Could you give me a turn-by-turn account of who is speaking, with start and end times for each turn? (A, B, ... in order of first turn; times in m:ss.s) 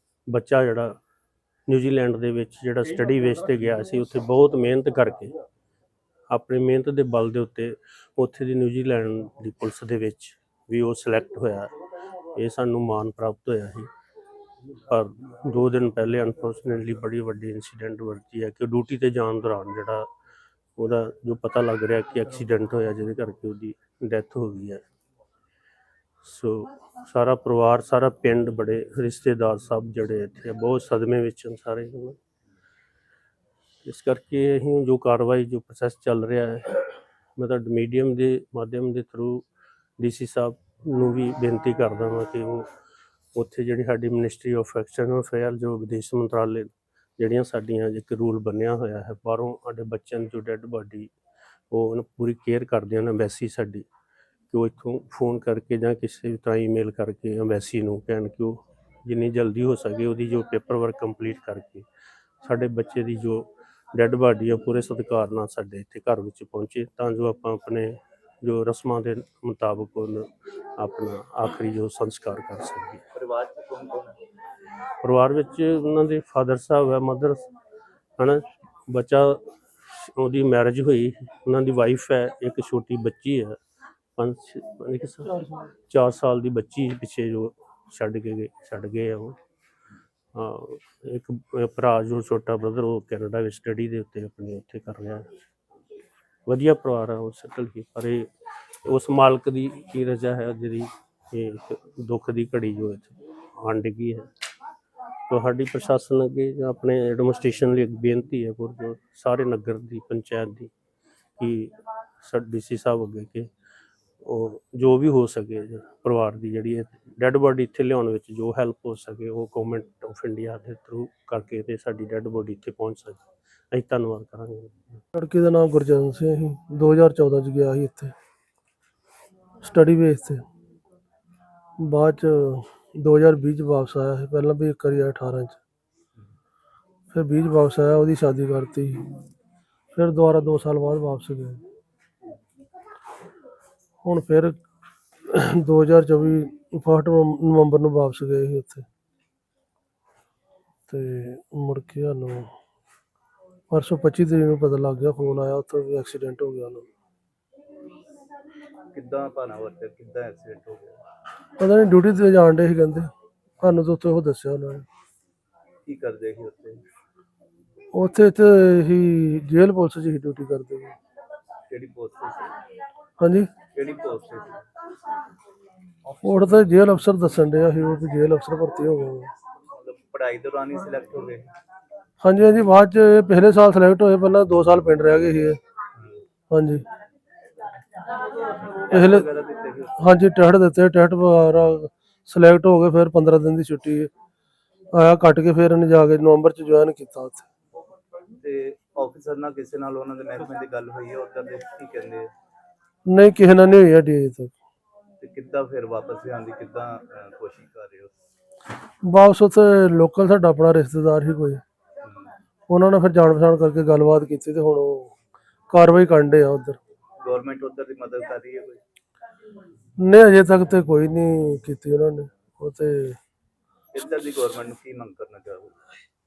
0:00.3-0:01.0 A
0:01.7-0:05.3 A
0:06.3-0:11.7 A
0:12.3-0:13.9 A
0:14.9-0:20.1 A
0:20.8-0:24.8 A
0:26.2-0:32.2 A
0:33.8-0:39.4 A
0:40.0-0:42.7 A
0:43.3-0:51.1 A
0:51.7-0:53.9 A
0:54.5-1:01.8 A
1:02.4-1:13.0 A
1:13.1-1:14.2 B
1:15.0-1:17.5 A
1:18.2-1:23.6 A
1:24.2-1:29.4 A
1:30.3-1:35.3 A
1:36.5-1:38.3 A
1:38.8-1:44.3 A
1:45.3-1:50.7 A
1:51.4-1:53.5 A
1:54.2-2:04.7 A
2:05.1-2:08.1 C
2:09.6-2:10.4 C
2:11.8-2:15.6 C
2:17.1-2:19.1 C
2:19.9-2:21.6 C
2:24.0-2:24.6 C
2:25.3-2:28.8 C
2:30.9-2:32.5 C
2:33.7-2:36.8 C
2:38.9-2:41.0 B
2:41.6-2:43.1 C
2:43.6-2:44.8 C
2:45.8-2:46.8 B
2:47.9-2:51.0 C
2:51.7-2:52.6 B
2:53.2-2:53.5 C
2:53.7-2:54.6 B
2:56.1-2:56.4 B
2:56.2-2:59.3 C
2:59.7-3:01.5 B
3:02.2-3:05.6 C
3:05.9-3:06.2 B
3:06.5-3:06.8 C
3:08.7-3:10.0 B
3:08.9-3:09.2 C
3:10.0-3:14.1 C
3:14.9-3:17.4 C
3:18.4-3:22.3 B
3:23.0-3:24.5 C
3:25.2-3:28.1 B
3:29.0-3:31.6 C
3:32.0-3:32.3 B
3:32.7-3:35.1 C
3:35.7-3:36.8 C
3:37.2-3:38.8 B
3:40.0-3:43.2 C
3:43.9-3:45.7 B